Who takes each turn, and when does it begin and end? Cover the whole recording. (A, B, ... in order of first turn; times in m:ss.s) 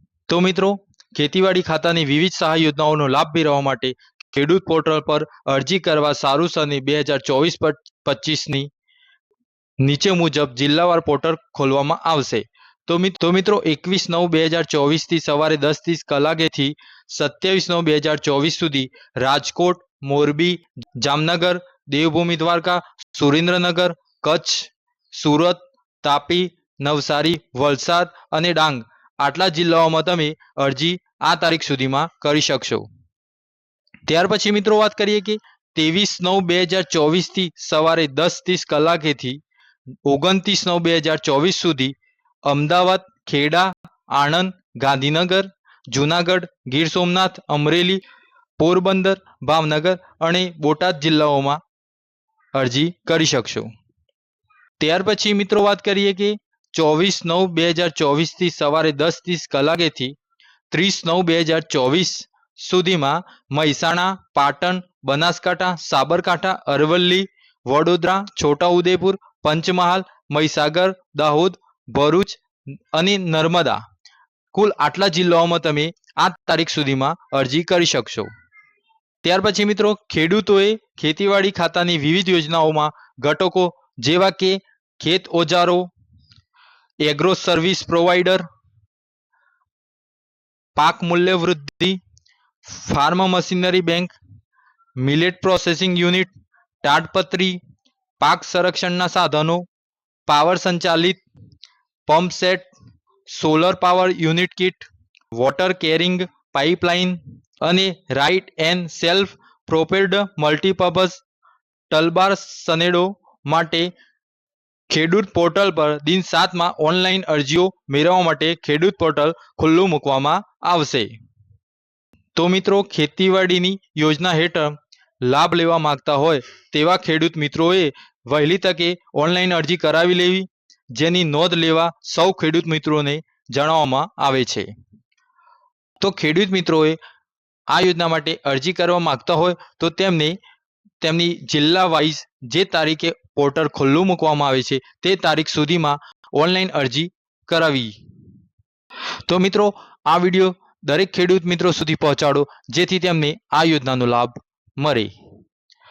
0:00.3-0:08.7 A
0:09.8-0:32.9 A
0:34.1-0:39.4 A
0:40.1-0:48.0 A
0:48.6-0:51.6 A
0:52.6-0:53.7 A
0:54.8-1:00.2 A
1:00.7-1:12.4 A
1:12.9-1:13.8 A
1:14.5-1:18.3 A
1:19.2-1:25.9 A
1:27.0-1:28.4 A
1:30.8-1:32.0 A
1:32.6-1:34.2 A
1:35.0-1:36.3 A
1:36.8-1:37.6 A
1:38.2-1:39.7 A
1:40.3-1:41.2 A
1:42.1-1:42.7 A
1:43.3-1:51.2 A
1:51.9-1:53.9 A
1:54.9-2:01.1 A
2:02.4-2:14.7 A
2:16.0-2:17.0 A
2:17.7-2:20.4 A
2:21.0-2:28.0 A
2:29.3-2:35.1 A